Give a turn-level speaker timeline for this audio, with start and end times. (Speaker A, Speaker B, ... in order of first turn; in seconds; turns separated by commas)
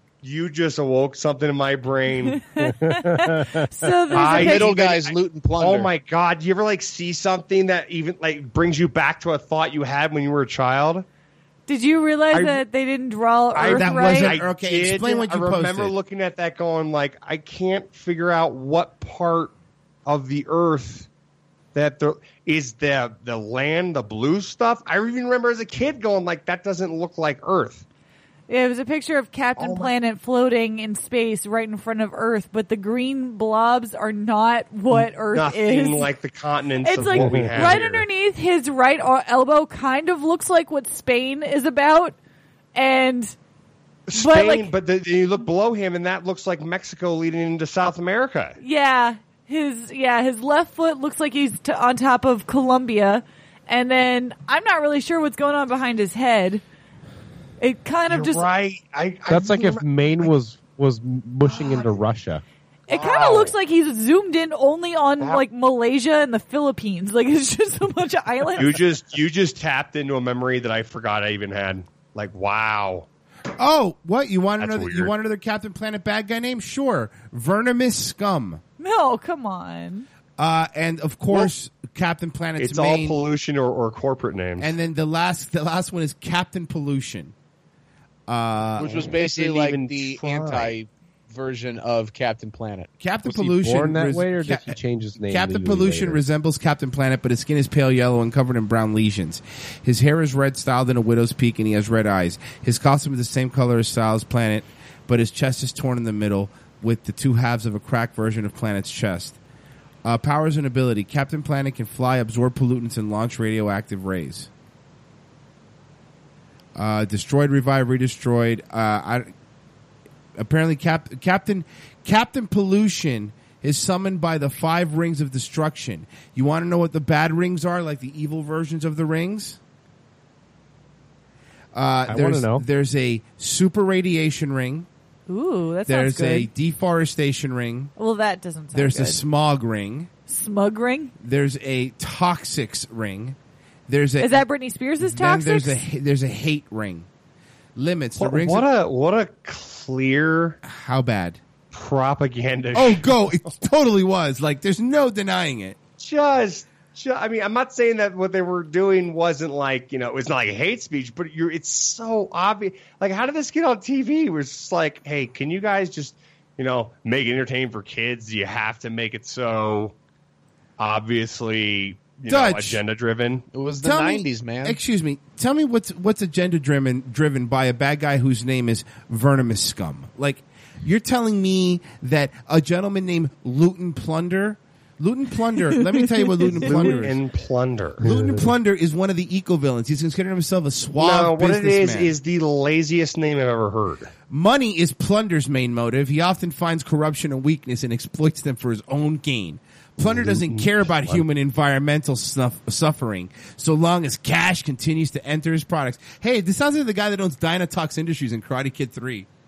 Speaker A: 0.2-2.7, Speaker B: 2.3-4.7, Speaker A: 4.1-11.0, Speaker C: 4.1-5.9, Speaker B: 11.7-14.4, Speaker A: 12.3-12.6, Speaker A: 13.5-19.5, Speaker D: 13.6-15.9, Speaker A: 20.1-21.1, Speaker A: 21.7-27.8, Speaker B: 28.5-36.1, Speaker A: 29.6-29.9, Speaker A: 35.0-38.0, Speaker B: 36.8-42.1, Speaker D: 37.2-37.6, Speaker B: 42.7-43.3, Speaker A: 44.1-48.6, Speaker B: 44.1-44.7, Speaker B: 48.6-56.6, Speaker B: 57.6-58.5, Speaker A: 58.1-60.3, Speaker E: 59.3-62.4, Speaker B: 62.9-68.8, Speaker A: 62.9-63.5, Speaker A: 68.6-73.1, Speaker D: 73.6-78.6, Speaker A: 74.6-75.1, Speaker B: 78.8-80.1, Speaker D: 80.4-83.2, Speaker A: 82.6-84.7, Speaker D: 84.6-87.3, Speaker D: 88.3-89.0, Speaker C: 88.8-92.9, Speaker A: 89.2-90.7, Speaker D: 93.0-109.4, Speaker E: 93.2-96.2, Speaker D: 110.0-114.5, Speaker D: 116.7-119.3, Speaker D: 120.3-129.6, Speaker D: 131.7-134.9, Speaker E: 132.1-132.6, Speaker B: 135.3-136.5, Speaker D: 135.8-137.9, Speaker B: 138.0-139.2, Speaker D: 138.7-140.1, Speaker B: 140.3-141.1, Speaker D: 141.2-143.4, Speaker D: 143.9-144.4, Speaker B: 144.2-145.8, Speaker D: 145.0-147.1, Speaker D: 147.8-148.7, Speaker A: 148.2-150.6, Speaker D: 150.6-151.4, Speaker A: 151.7-153.1, Speaker D: 152.7-155.8, Speaker A: 156.0-169.9, Speaker A: 170.8-173.4, Speaker D: 172.3-172.8, Speaker C: 173.5-174.8, Speaker D: 173.8-187.2, Speaker B: 186.2-186.7, Speaker A: 186.5-188.5, Speaker D: 188.0-192.2, Speaker A: 191.0-194.1, Speaker D: 194.3-209.3, Speaker A: 200.3-201.2